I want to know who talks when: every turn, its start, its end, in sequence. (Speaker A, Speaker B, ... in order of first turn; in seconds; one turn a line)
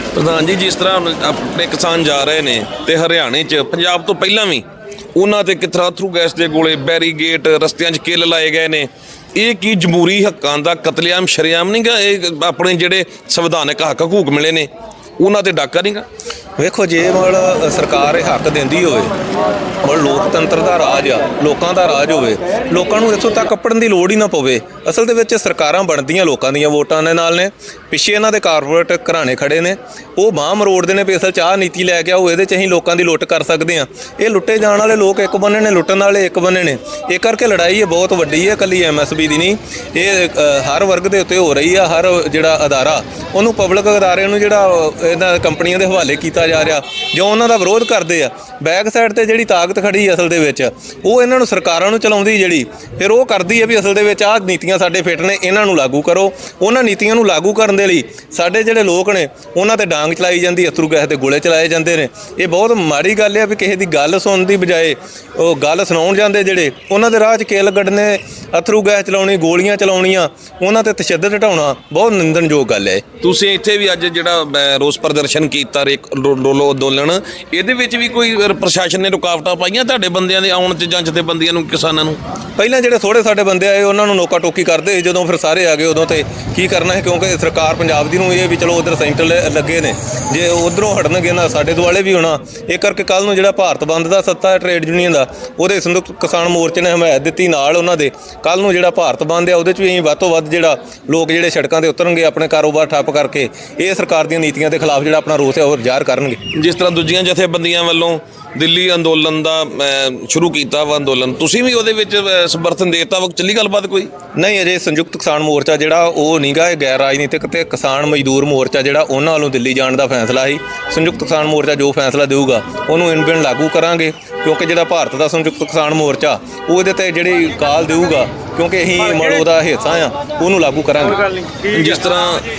Speaker A: 0.1-4.6
Speaker A: 5.2-16.0
Speaker B: 16.6-19.1
Speaker B: 19.8-73.0
Speaker A: 73.2-82.2
Speaker B: 82.6-106.4
Speaker A: 106.5-114.1
Speaker B: 114.3-131.3
Speaker A: 131.6-132.4